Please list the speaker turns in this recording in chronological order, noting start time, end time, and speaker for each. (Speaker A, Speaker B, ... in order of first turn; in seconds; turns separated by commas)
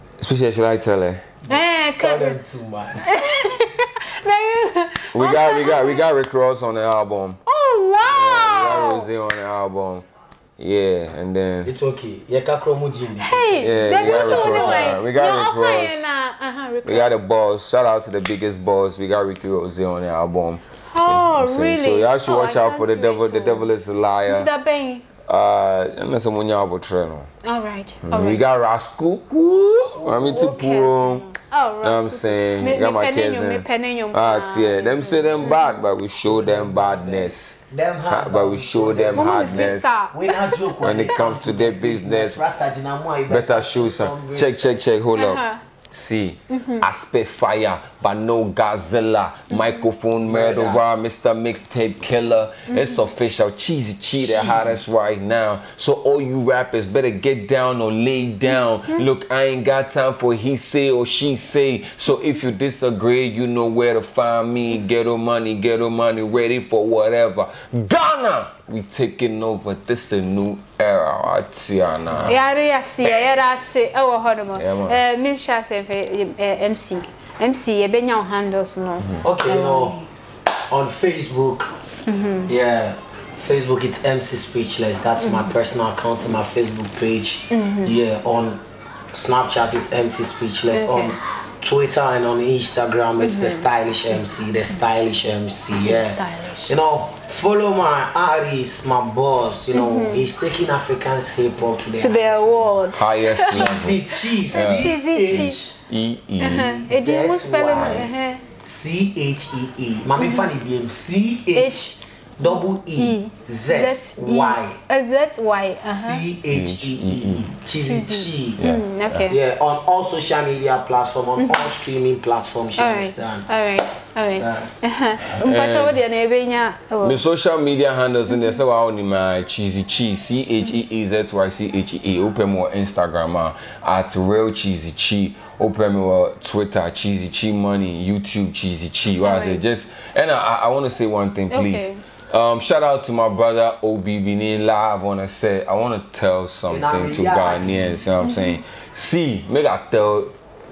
Speaker A: 0.2-1.2, Speaker B: 1.5-3.0, Speaker C: 1.5-2.4, Speaker C: 3.0-6.0, Speaker A: 5.2-7.4, Speaker C: 7.5-9.1, Speaker A: 8.1-10.1, Speaker A: 10.6-11.7, Speaker B: 11.6-15.0, Speaker C: 13.2-17.2, Speaker A: 13.6-16.1, Speaker A: 16.9-24.5, Speaker C: 20.9-23.7, Speaker C: 24.3-25.1, Speaker A: 25.3-27.3, Speaker C: 27.4-28.4, Speaker A: 28.0-31.2, Speaker C: 30.0-35.8, Speaker A: 31.8-37.6, Speaker B: 36.2-44.7, Speaker A: 38.1-40.0, Speaker C: 39.1-40.8, Speaker A: 40.8-42.4, Speaker A: 43.3-72.4, Speaker C: 45.1-45.6, Speaker C: 46.5-46.9, Speaker C: 49.5-49.9, Speaker B: 50.2-50.8, Speaker C: 52.7-53.0, Speaker B: 54.1-54.8, Speaker C: 72.3-80.1, Speaker A: 73.0-73.4, Speaker A: 74.6-75.0, Speaker B: 79.2-80.0, Speaker B: 80.7-81.8, Speaker C: 82.1-82.5, Speaker B: 82.5-88.6, Speaker C: 85.2-85.5, Speaker C: 87.5-88.0, Speaker B: 89.1-102.7, Speaker C: 90.7-91.2, Speaker C: 93.2-93.7, Speaker C: 95.8-96.8, Speaker C: 99.7-100.3, Speaker C: 102.0-103.8, Speaker A: 102.9-106.7, Speaker B: 103.5-105.8, Speaker C: 104.4-105.6, Speaker C: 106.4-108.4, Speaker B: 106.5-108.1, Speaker B: 108.6-111.8, Speaker C: 110.2-110.5, Speaker C: 111.5-116.2, Speaker B: 112.4-114.8, Speaker B: 115.9-118.6, Speaker A: 116.5-117.5, Speaker C: 117.8-119.4, Speaker A: 118.6-119.3, Speaker B: 119.3-123.5, Speaker C: 121.4-121.8, Speaker C: 122.8-127.2, Speaker B: 124.4-124.7, Speaker A: 125.4-126.0, Speaker A: 127.0-150.3, Speaker C: 128.3-128.6, Speaker C: 139.2-139.6, Speaker C: 141.5-142.0, Speaker B: 146.7-148.0, Speaker C: 148.2-148.6